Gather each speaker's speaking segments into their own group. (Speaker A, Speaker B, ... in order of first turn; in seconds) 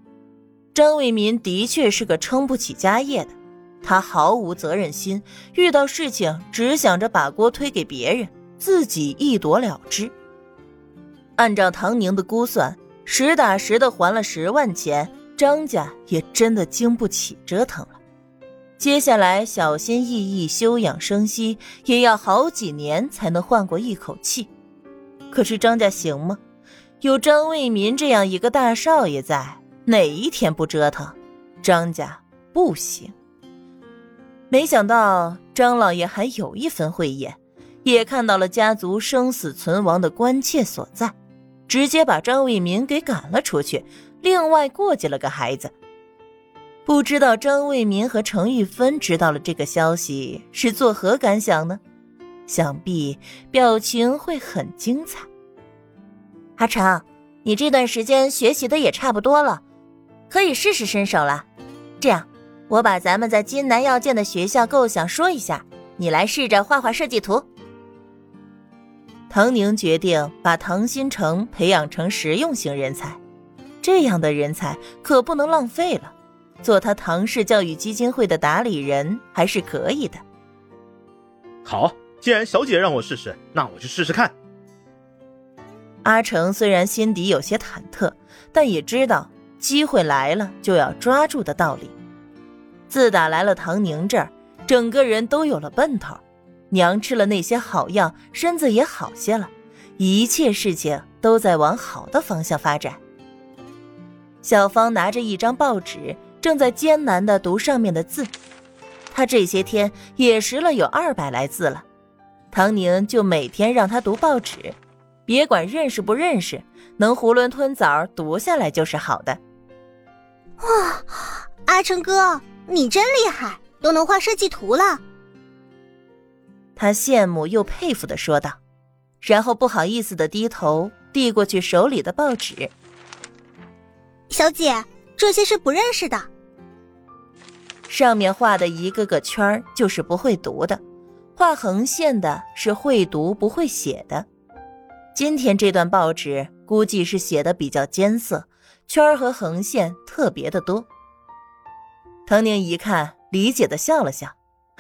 Speaker A: 0.7-10.1, 11.4-18.0, 18.8-24.5, 25.3-26.4, 27.0-33.1, 34.5-41.1, 41.7-45.7, 46.9-51.8, 52.5-55.3, 56.6-59.6, 60.3-61.5, 62.0-67.5, 69.3-73.2, 73.8-80.2, 86.0-92.0, 92.9-103.0, 104.4-108.3, 109.1-111.8, 112.5-119.4, 126.8-128.6, 129.2-132.7, 137.9-140.8, 141.4-144.3, 145.1-150.9, 152.3-154.3
Speaker B: 81.6-84.3
Speaker C: 120.6-125.0, 134.3-136.3